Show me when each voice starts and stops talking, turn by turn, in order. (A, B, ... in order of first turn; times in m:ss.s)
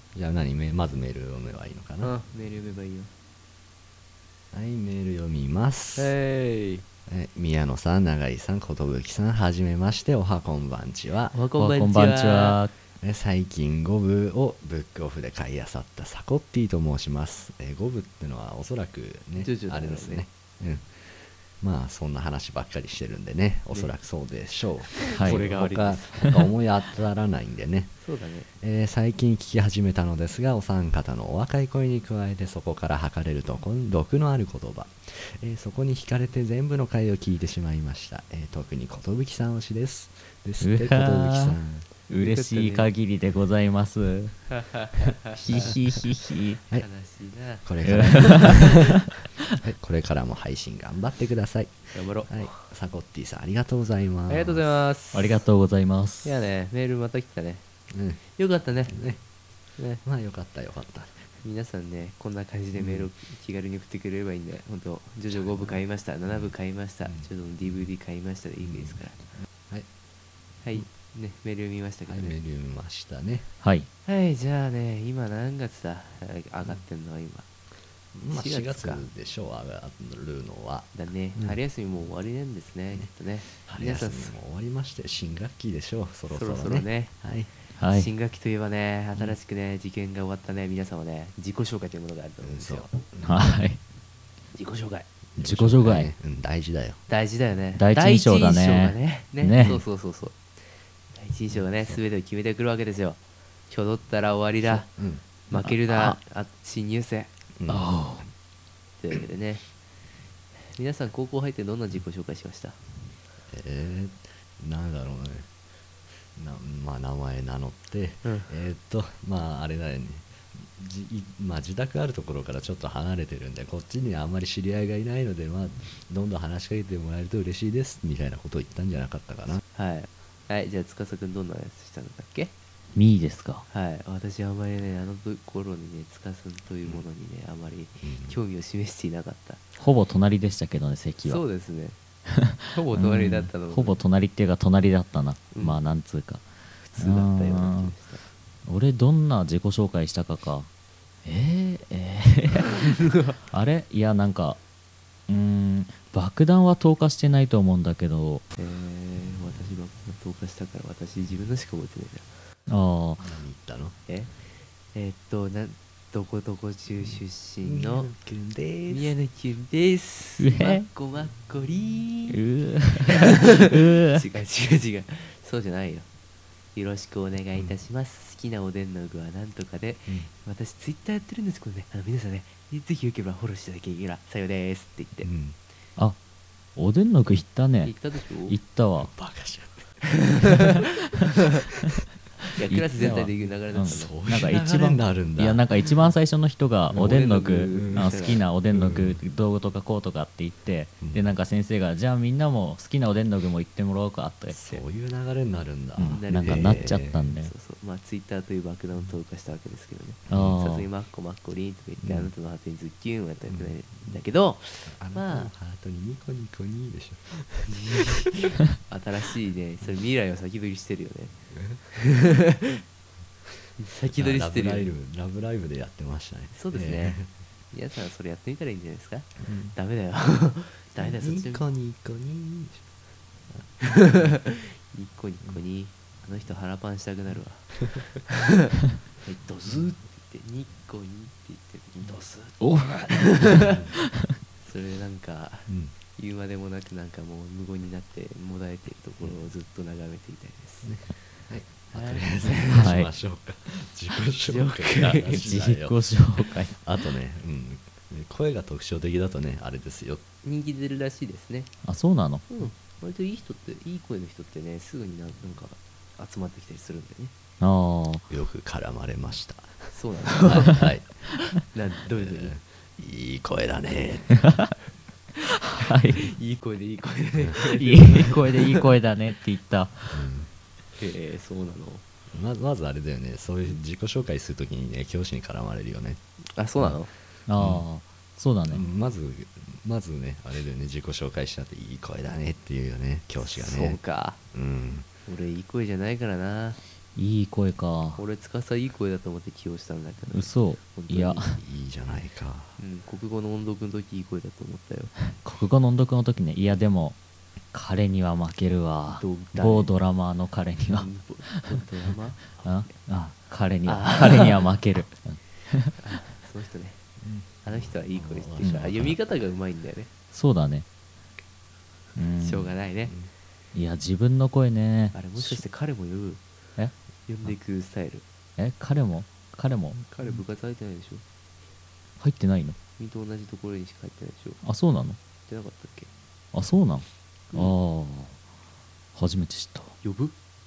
0:00.1-0:02.1 A
0:02.0-0:03.1 B
0:04.5-0:06.1 A
0:06.0-0:06.8 B
0:07.1-0:11.4 A
0:11.3-0:12.6 B
0:11.6-0:12.7 C
0:13.0-0:28.0 A
0:19.4-0:20.2 B
0:24.9-0:26.4 B
0:25.1-0:25.4 C
0:28.0-0:28.5 B
0:28.6-0:41.9 A
0:40.6-0:41.5 C
0:42.1-0:44.5 C
0:42.2-0:42.9 B
0:44.5-0:45.7 B
0:45.4-0:46.6 C
0:46.7-0:48.6 B
0:47.6-0:49.0 A
0:47.8-0:48.8 C
0:49.6-0:54.7 A
0:51.9-0:52.6 B
0:54.3-0:55.4 B
0:55.1-0:56.4 C
0:56.2-0:57.6 B
0:57.9-0:58.2 A
0:58.3-0:59.0 B
0:58.9-0:59.2 A
0:59.8-1:00.0 B
1:00.0-1:01.2 A
1:01.4-1:09.2 B
1:02.8-1:03.1 A
1:05.3-1:06.5 A
1:07.0-1:07.8 A
1:08.6-1:09.9 A
1:10.6-1:12.4 B
1:12.1-1:13.5 A
1:13.6-1:13.9 C
1:14.0-1:17.5 B
1:18.1-1:21.6 A
1:18.3-1:19.0 B
1:20.9-1:24.3 B
1:23.0-1:27.5 A
1:26.3-1:27.2 B
1:27.8-1:28.1 C
1:27.9-1:33.0 B
1:32.4-1:33.6 A
1:33.2-1:33.8 C
1:34.5-1:35.1 B
1:35.3-1:37.0 A
1:35.4-1:36.1 C
1:37.1-1:40.4 B
1:37.8-1:39.8 C
1:41.1-1:44.9 B
1:44.6-1:45.6 A
1:45.5-1:47.3 B
1:45.6-1:46.2 C
1:47.6-1:47.9 A
1:47.7-1:48.2 C
1:49.0-1:49.6 B
1:50.7-1:52.8 B
1:53.5-1:55.5 A
1:56.3-2:09.6 A
1:58.2-1:58.5 B
2:09.7-2:12.5 B
2:12.9-2:13.6 C
2:13.7-2:19.6 B
2:18.0-2:18.4 A
2:19.8-2:21.4 C
2:21.2-2:22.0 B
2:22.3-2:26.4 C
2:22.7-2:24.0 B
2:25.5-2:25.8 B
2:26.8-2:28.2 B
2:27.0-2:27.9 C
2:28.6-2:30.7 C
2:31.2-2:32.8 C
2:33.0-2:33.4 B
2:33.5-2:34.6 C
2:35.3-2:38.4 C
2:38.6-2:42.3 B
2:42.7-2:43.2 C
2:43.2-2:44.0 A
2:44.1-2:44.3 B
2:44.9-2:48.1 B
2:47.6-2:49.1 A
2:48.9-2:52.4 B
2:50.4-2:50.9 C
2:52.3-2:54.2 C
2:53.0-2:56.1 B
2:56.7-3:05.3 B
3:05.2-3:05.6 A
3:06.8-3:07.9 C
3:07.8-3:08.6 B
3:08.5-3:09.1 C
3:09.0-3:10.8 A
3:10.1-3:10.7 B
3:12.6-3:14.2 B
3:12.6-3:24.8 C
3:13.8-3:15.7 A
3:17.0-3:18.4 B
3:17.7-3:18.1 A
3:18.7-3:19.2 A
3:21.0-3:21.3 A
3:24.5-3:27.3 A
3:26.0-3:27.5 C
3:26.1-3:26.9 B
3:27.4-3:35.5 B
3:30.3-3:30.6 A
3:30.3-3:30.9 C
3:32.0-3:32.3 A
3:34.8-3:38.5 A
3:37.7-3:41.3 B
3:41.5-3:41.8 A
3:41.9-3:42.8 B
3:43.8-3:44.9 B
3:44.1-3:47.3 A
3:46.5-3:47.2 B
3:47.7-3:51.6 B
3:49.4-3:49.7 A
3:51.0-3:52.8 A
3:53.5-3:54.3 A
3:53.8-4:03.8 B
4:02.6-4:03.7 C
4:03.5-4:03.9 A
4:04.6-4:10.9 B
4:05.7-4:05.9 A
4:10.8-4:20.2 A
4:11.9-4:13.0 B
4:12.7-4:13.1 C
4:14.4-4:15.4 B
4:15.3-4:16.8 C
4:20.4-4:21.7 B
4:21.8-4:22.4 C
4:22.5-4:27.3 B
4:27.6-4:28.2 C
4:28.3-4:31.0 A
4:29.9-4:30.9 B
4:31.6-4:32.5 B
4:32.1-4:34.4 A
4:34.4-4:34.7 C
4:35.4-4:36.3 C
4:36.2-4:38.9 B
4:37.7-4:40.1 C
4:40.1-4:40.5 A
4:41.0-4:42.0 B
4:42.3-4:46.2 A
4:46.5-4:47.1 B
4:47.5-4:48.8 C
4:47.6-4:47.8 A
4:48.7-4:54.0 A
4:53.4-4:54.4 B
4:54.5-4:55.1 A
4:55.3-4:56.8 B
4:57.2-4:58.2 C
4:58.2-5:01.6 B
5:00.3-5:01.6 C
5:01.6-5:02.7 A
5:02.8-5:05.2 B
5:05.4-5:07.2 C
5:07.7-5:11.8 C
5:09.2-5:09.9 B
5:10.9-5:13.1 B
5:12.6-5:15.9 C
5:13.8-5:14.7 B
5:16.0-5:17.0 B
5:17.2-5:19.2 A
5:17.6-5:20.1 B
5:20.3-5:20.8 C
5:22.2-5:22.7 C
5:22.4-5:23.1 B
5:23.7-5:25.6 C
5:25.1-5:26.4 B
5:27.3-5:28.2 B
5:28.6-5:30.0 C
5:30.0-5:31.2 B
5:32.2-5:32.8 C
5:33.0-5:34.6 B
5:34.6-5:35.2 C
5:35.4-5:36.1 B
5:36.5-5:38.3 C
5:39.1-5:40.0 C
5:40.0-5:40.3 B